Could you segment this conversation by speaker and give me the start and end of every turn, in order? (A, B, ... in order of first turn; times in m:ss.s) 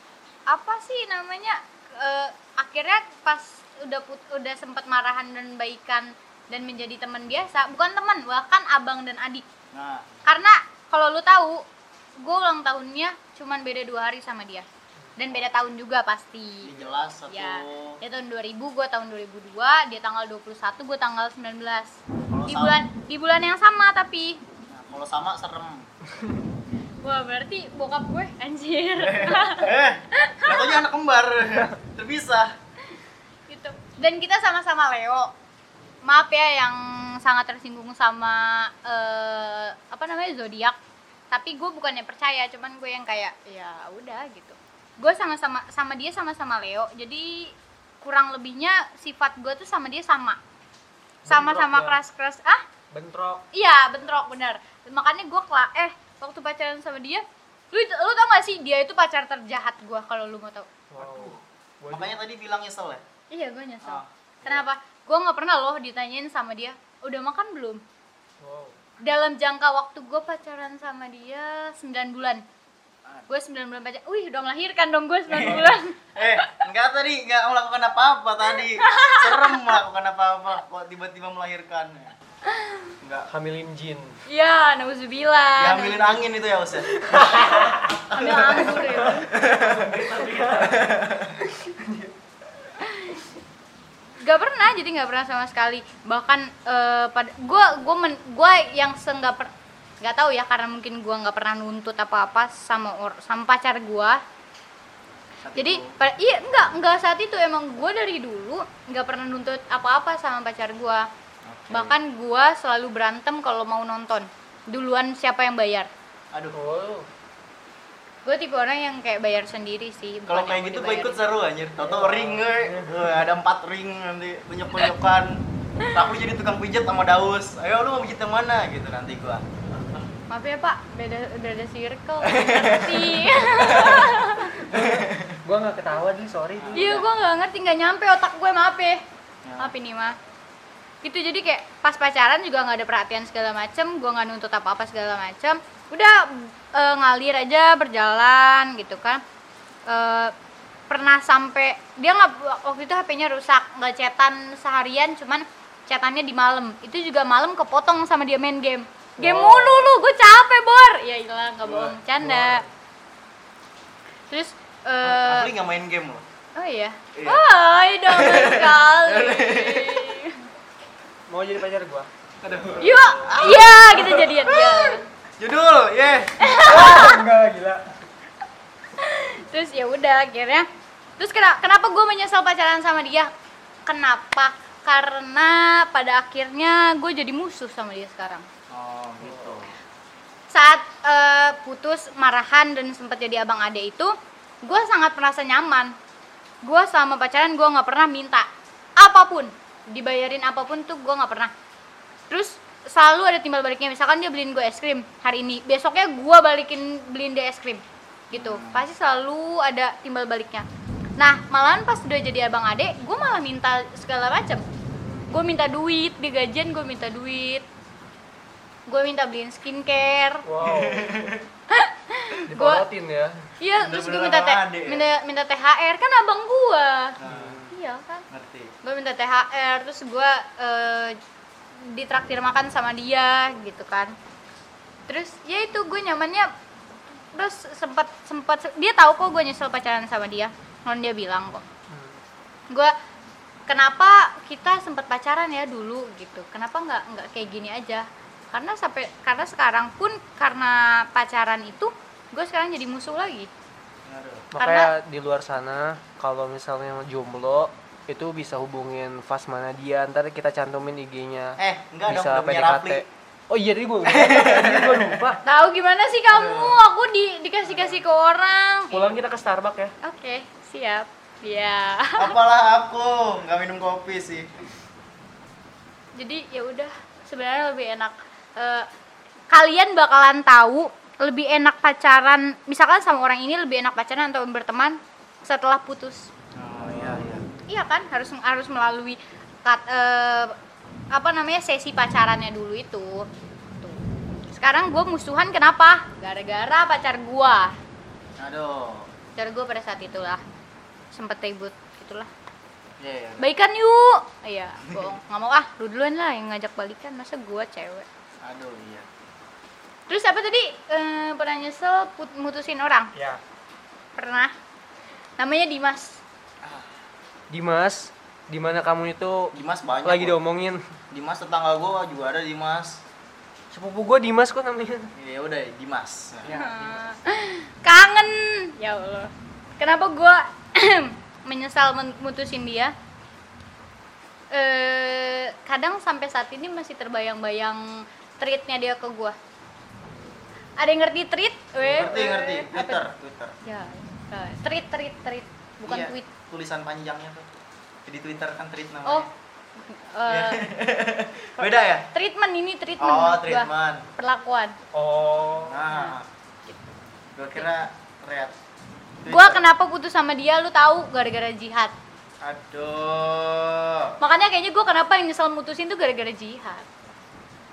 0:00.5-0:09.4 A
0:09.7-0:10.1 B
0:10.3-0:11.6 A
0:12.2-0:14.7 A
0:15.2-0:24.4 A
0:15.3-0:15.6 B
0:16.6-0:18.0 B
0:22.3-0:22.8 B
0:24.7-0:25.9 B
0:26.2-0:26.4 C
0:27.0-0:30.8 A
0:29.0-0:32.5 B
0:33.5-0:35.3 A
0:36.0-0:40.8 A
0:41.3-0:50.4 A
0:51.2-0:52.0 C
0:51.3-0:52.6 A
0:52.9-0:53.5 C
0:53.5-1:00.7 A
1:00.9-1:02.2 C
1:01.0-1:01.4 B
1:01.9-1:03.0 B
1:03.3-1:07.8 A
1:03.8-1:04.7 B
1:08.4-1:08.8 C
1:09.0-1:12.4 A
1:13.3-1:16.5 A
1:15.3-1:22.2 B
1:15.5-1:15.7 C
1:18.6-1:19.8 A
1:22.4-1:22.9 A
1:23.0-1:23.3 B
1:23.3-1:24.2 C
1:24.3-1:26.2 A
1:25.6-1:31.4 B
1:26.9-1:28.0 C
1:28.1-1:29.3 A
1:28.7-1:32.8 C
1:32.8-1:33.2 A
1:34.2-1:44.2 A
1:45.5-1:46.0 B
1:45.6-1:51.1 A
1:51.4-1:52.0 B
1:51.7-1:55.9 A
1:56.5-1:57.1 C
1:58.2-2:01.2 A
2:00.3-2:09.4 B
2:01.8-2:03.2 C
2:10.3-2:14.6 A
2:12.2-2:14.2 B
2:14.6-2:17.0 C
2:14.7-2:15.4 B
2:16.6-2:17.0 B
2:16.8-2:19.0 A
2:19.4-2:19.7 B
2:19.6-2:20.2 A
2:21.0-2:29.2 A
2:29.9-2:30.3 A
2:30.9-2:42.6 A
2:39.2-2:39.9 C
2:41.6-2:42.0 B
2:42.2-2:42.7 C
2:44.3-2:45.5 A
2:45.0-2:46.2 B
2:46.6-2:50.4 A
2:47.1-2:47.4 B
2:48.1-2:50.2 B
2:51.3-2:53.1 C
2:52.4-2:56.5 B
2:52.8-2:55.1 A
2:56.4-2:57.2 A
2:56.6-2:58.0 C
2:59.0-3:00.7 A
3:01.2-3:03.3 A
3:03.9-3:08.5 A
3:08.7-3:09.8 B
3:10.5-3:16.0 A
3:16.6-3:21.5 A
3:22.3-3:30.7 A
3:28.3-3:28.8 B
3:31.2-3:34.6 A
3:34.9-3:35.3 C
3:35.3-3:37.6 A
3:38.9-3:40.5 A
3:40.4-3:41.2 C
3:40.6-3:41.5 B
3:41.7-3:42.8 A
3:42.5-3:43.5 C
3:43.6-3:47.2 A
3:43.8-3:45.1 B
3:47.2-3:47.6 B
3:47.2-3:47.8 C
3:47.7-3:48.3 A
3:48.3-3:48.7 B
3:48.8-3:51.2 A
3:51.8-3:54.2 A
3:55.1-3:56.5 A
3:57.3-4:01.6 A
4:01.9-4:02.2 C
4:03.7-4:13.5 A
4:14.1-4:14.5 B
4:14.5-4:25.4 C
4:14.6-4:14.9 A
4:21.6-4:23.0 B
4:24.0-4:25.2 B
4:25.4-4:29.1 A
4:26.3-4:26.8 B
4:27.6-4:28.0 C
4:28.9-4:30.0 C
4:30.0-4:32.4 A
4:32.2-4:34.5 B
4:36.2-4:38.9 A
4:39.5-4:46.3 A
4:46.6-4:47.4 B
4:46.8-4:47.4 C
4:47.7-4:50.6 A
4:51.1-4:53.3 A
4:53.8-4:57.8 A
4:58.4-4:59.1 B
4:59.4-5:00.4 A
5:01.1-5:02.3 A
5:03.0-5:03.4 B
5:03.4-5:08.1 A
5:08.4-5:09.1 B
5:10.1-5:13.1 A
5:13.1-5:13.4 C
5:14.2-5:14.5 A
5:15.4-5:16.2 A
5:16.6-5:16.9 B
5:17.5-5:20.8 C
5:19.5-5:20.4 B
5:21.1-5:23.0 B
5:23.7-5:25.1 C
5:25.2-5:26.5 B
5:26.4-5:27.0 C
5:26.5-5:32.9 A
5:34.5-5:39.4 A
5:40.8-5:43.0 A
5:41.8-5:42.2 C
5:41.9-5:43.6 B
5:43.6-5:46.3 A
5:45.9-5:47.5 B
5:48.1-5:49.3 B
5:49.1-5:50.6 A
5:50.3-5:52.1 B
5:51.6-5:54.8 A
5:53.0-5:54.1 B
5:54.9-5:55.9 C
5:55.7-5:56.3 B
5:55.9-5:56.2 A
5:57.4-5:58.6 B
5:57.6-5:57.8 A
5:59.2-5:59.6 B
5:59.3-6:01.9 A
6:02.4-6:04.2 B
6:04.2-6:06.9 A